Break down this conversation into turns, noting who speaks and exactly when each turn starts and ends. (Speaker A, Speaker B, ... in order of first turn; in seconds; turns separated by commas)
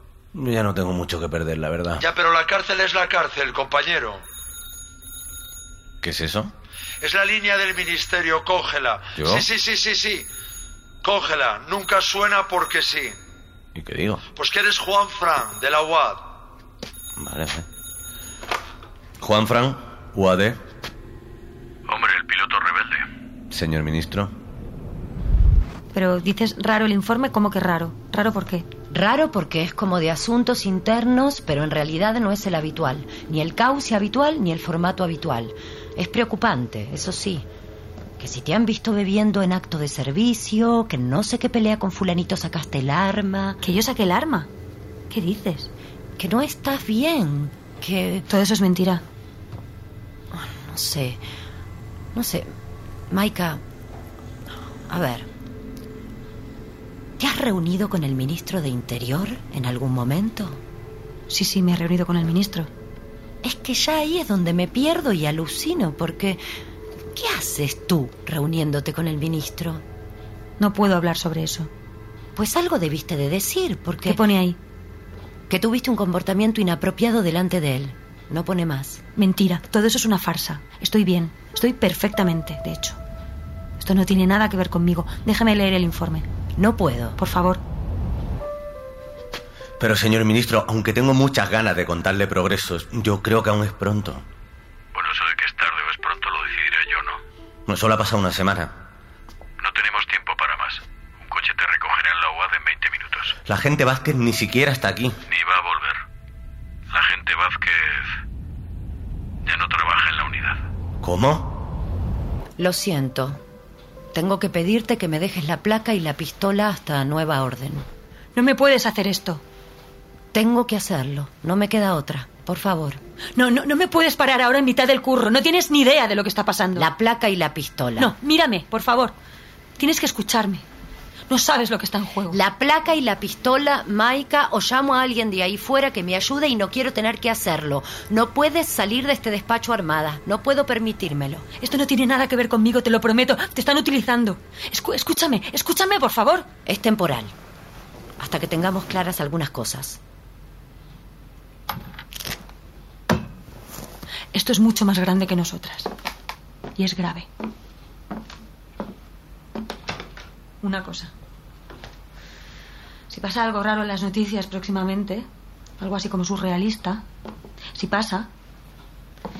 Speaker A: 0.3-2.0, Speaker B: 2.0-4.2, Speaker A: 6.0-6.5, Speaker B: 7.0-10.3, Speaker A: 9.2-9.4, Speaker B: 11.0-13.2, Speaker A: 13.7-14.2, Speaker B: 14.3-16.3, Speaker A: 17.1-17.6, Speaker A: 19.2-20.6, Speaker C: 21.9-23.1, Speaker A: 23.5-24.3, Speaker D: 25.9-28.6, Speaker E: 28.9-37.4, Speaker E: 38.2-43.6, Speaker D: 43.6-44.5, Speaker D: 45.1-45.7, Speaker E: 46.2-48.2, Speaker D: 48.3-49.0, Speaker E: 50.3-51.2, Speaker E: 52.1-52.5, Speaker E: 53.1-53.6, Speaker E: 54.9-55.3, Speaker E: 57.2-60.6, Speaker D: 61.3-62.7, Speaker E: 63.4-66.4, Speaker E: 67.1-69.8, Speaker D: 70.6-71.7, Speaker E: 72.3-74.2, Speaker D: 74.0-74.6, Speaker E: 75.5-79.0, Speaker D: 79.2-83.0, Speaker D: 83.8-86.2, Speaker E: 86.6-87.2, Speaker D: 87.2-87.6, Speaker A: 89.8-94.2, Speaker C: 94.9-97.2, Speaker A: 97.7-98.7, Speaker C: 99.6-103.3, Speaker A: 103.5-105.2, Speaker C: 105.3-106.0, Speaker C: 106.9-108.1, Speaker C: 109.4-110.6, Speaker A: 111.0-111.5, Speaker E: 112.6-113.4, Speaker E: 114.1-117.8, Speaker D: 118.3-119.4, Speaker E: 120.3-123.0, Speaker D: 123.3-126.9, Speaker E: 126.8-128.1, Speaker D: 128.0-129.1, Speaker D: 129.8-130.6, Speaker D: 131.3-132.4, Speaker E: 132.3-141.4, Speaker D: 141.6-146.5, Speaker E: 146.7-147.3, Speaker E: 148.2-150.0, Speaker D: 154.3-155.9, Speaker D: 156.8-157.3, Speaker D: 160.6-161.1, Speaker D: 163.1-165.2, Speaker D: 165.8-167.0, Speaker D: 167.7-168.3